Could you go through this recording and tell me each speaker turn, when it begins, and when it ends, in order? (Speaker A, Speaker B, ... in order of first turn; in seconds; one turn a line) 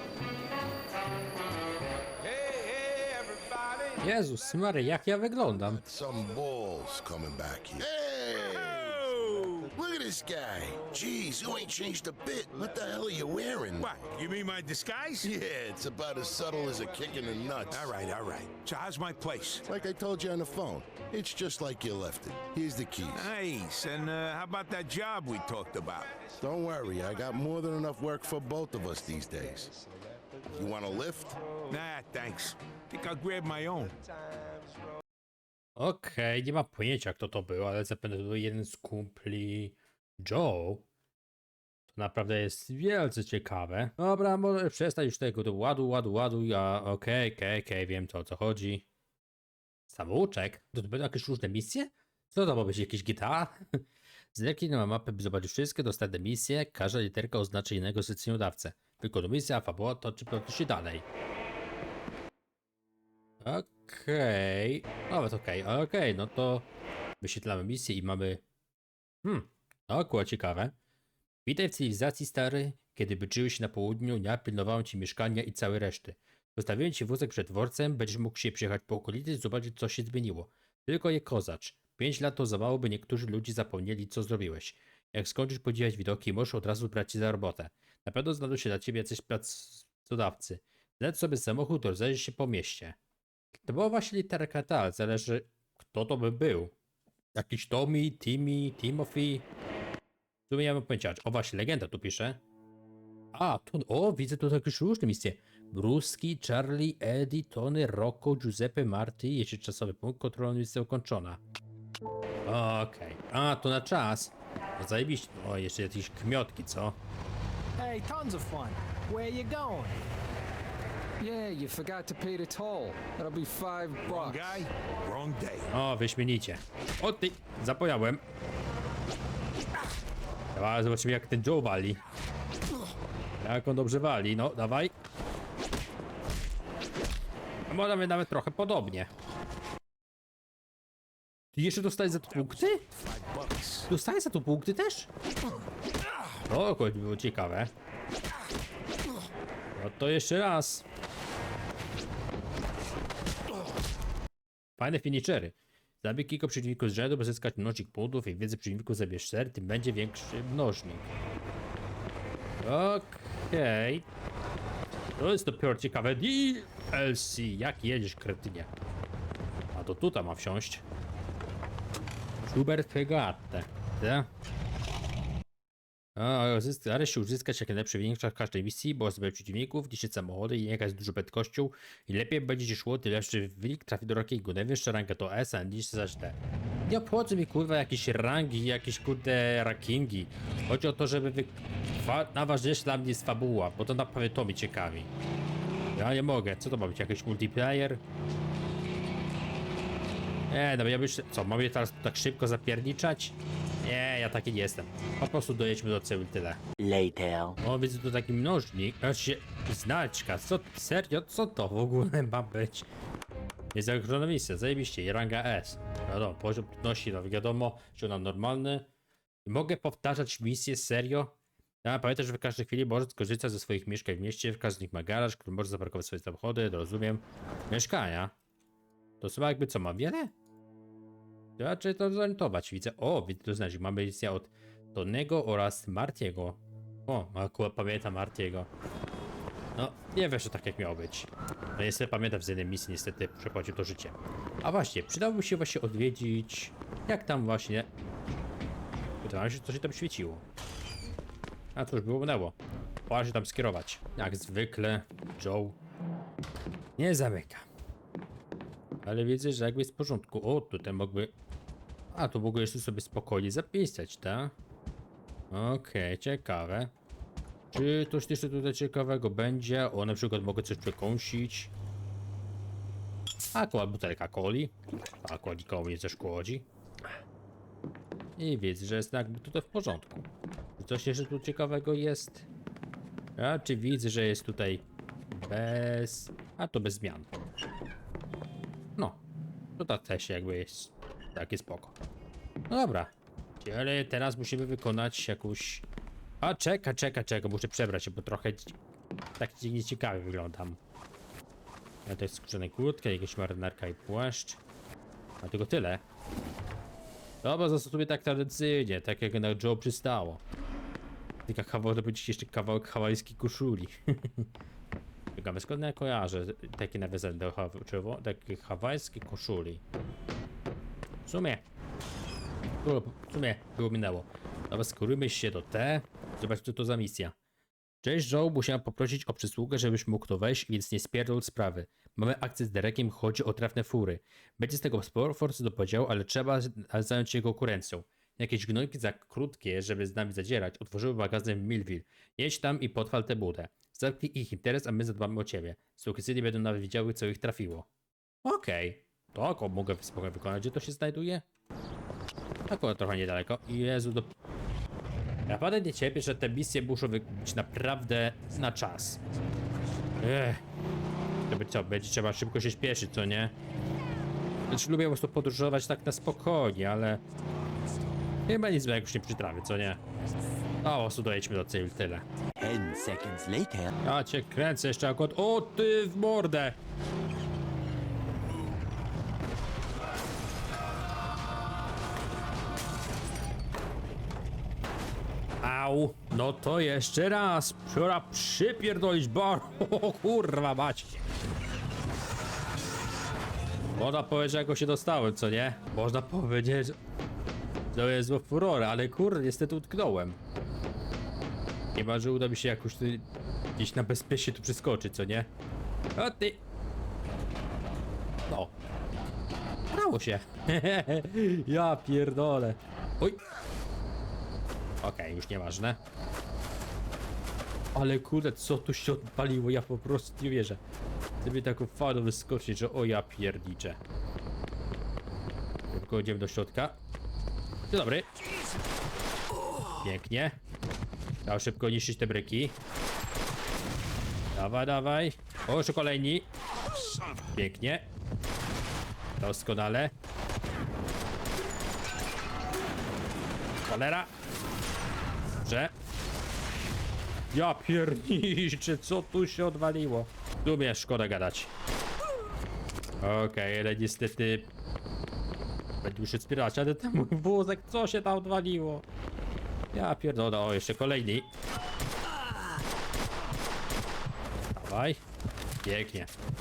Speaker A: 2.2-3.8
Speaker B: 4.0-5.8
Speaker C: 5.6-13.9
Speaker A: 8.4-9.7
Speaker A: 13.8-15.3
Speaker C: 15.2-17.9
Speaker A: 17.7-19.7
Speaker C: 19.7-23.3
Speaker A: 23.1-26.1
Speaker C: 26.4-29.7
Speaker C: 30.5-31.4
Speaker A: 31.7-34.0
Speaker B: 35.8-40.9
Speaker B: 41.9-48.9
Speaker B: 49.9-53.8
Speaker B: 54.3-61.0
Speaker B: 63.4-66.7
Speaker B: 67.2-68.4
Speaker B: 69.2-70.7
Speaker B: 71.5-93.0
Speaker B: 93.6-96.7
Speaker B: 97.3-99.5
Speaker B: 100.5-102.4
Speaker B: 103.3-111.4
Speaker B: 112.5-117.0
Speaker D: 117.8-120.0
Speaker D: 121.2-124.7
Speaker A: 124.0-125.7
Speaker B: 125.7-128.2
Speaker B: 130.5-132.0
Speaker B: 133.4-134.9
Speaker B: 137.7-139.1
Speaker B: 141.6-142.8
Speaker A: 142.3-143.9
Speaker B: 143.9-145.1
Speaker B: 146.5-147.7
Speaker B: 149.8-150.8
Speaker B: 154.8-161.1
Speaker B: 162.6-164.1
Speaker B: 165.2-168.7
Speaker B: 169.7-170.8
Speaker B: 172.4-174.3
Speaker B: 176.2-195.1
Speaker B: 195.9-198.0
Speaker B: 200.5-206.6
Speaker E: 206.8-207.6
Speaker B: 207.6-212.9
Speaker B: 213.7-218.9
Speaker B: 219.5-228.3
Speaker B: 229.2-230.3
Speaker B: 231.6-238.7
Speaker B: 239.8-247.9
Speaker B: 249.2-250.4
Speaker B: 251.8-252.6
Speaker B: 253.1-255.8
Speaker B: 257.0-257.7
Speaker B: 259.1-261.3
Speaker B: 262.1-264.5
Speaker B: 265.5-266.9
Speaker B: 267.7-271.7
Speaker B: 273.5-276.7
Speaker B: 278.4-280.2
Speaker B: 280.8-282.5
Speaker B: 283.4-287.3
Speaker B: 289.8-291.9
Speaker B: 292.7-295.8
Speaker B: 296.4-298.8
Speaker B: 299.4-300.8
Speaker B: 302.1-304.6
Speaker B: 305.4-306.0
Speaker B: 307.4-310.4
Speaker B: 311.5-314.5
Speaker B: 315.4-319.8
Speaker B: 321.2-321.6
Speaker B: 322.8-327.4
Speaker B: 328.0-347.9
Speaker B: 348.4-351.4
Speaker B: 352.7-354.3
Speaker B: 355.5-359.2
Speaker B: 360.2-360.6
Speaker B: 361.5-363.5
Speaker B: 364.7-367.2
Speaker B: 368.5-370.0
Speaker B: 370.8-372.2
Speaker E: 372.6-373.9
Speaker B: 374.0-376.8
Speaker B: 385.6-391.2
Speaker B: 394.0-397.0
Speaker B: 397.9-400.4
Speaker B: 401.9-403.3
Speaker B: 403.8-405.5
Speaker B: 406.2-406.6
Speaker B: 409.9-413.4
Speaker B: 415.0-416.0
Speaker B: 417.9-420.8
Speaker B: 421.4-424.0
Speaker B: 425.9-427.0
Speaker B: 427.9-428.3
Speaker B: 430.0-430.6
Speaker B: 431.4-432.8
Speaker B: 434.5-436.5
Speaker B: 437.5-438.1
Speaker B: 439.4-440.1
Speaker B: 443.9-444.3
Speaker B: 445.6-445.9
Speaker B: 447.5-451.7
Speaker B: 453.2-454.7
Speaker B: 456.0-459.0
Speaker B: 459.9-461.5
Speaker B: 464.8-465.2
Speaker B: 465.8-466.3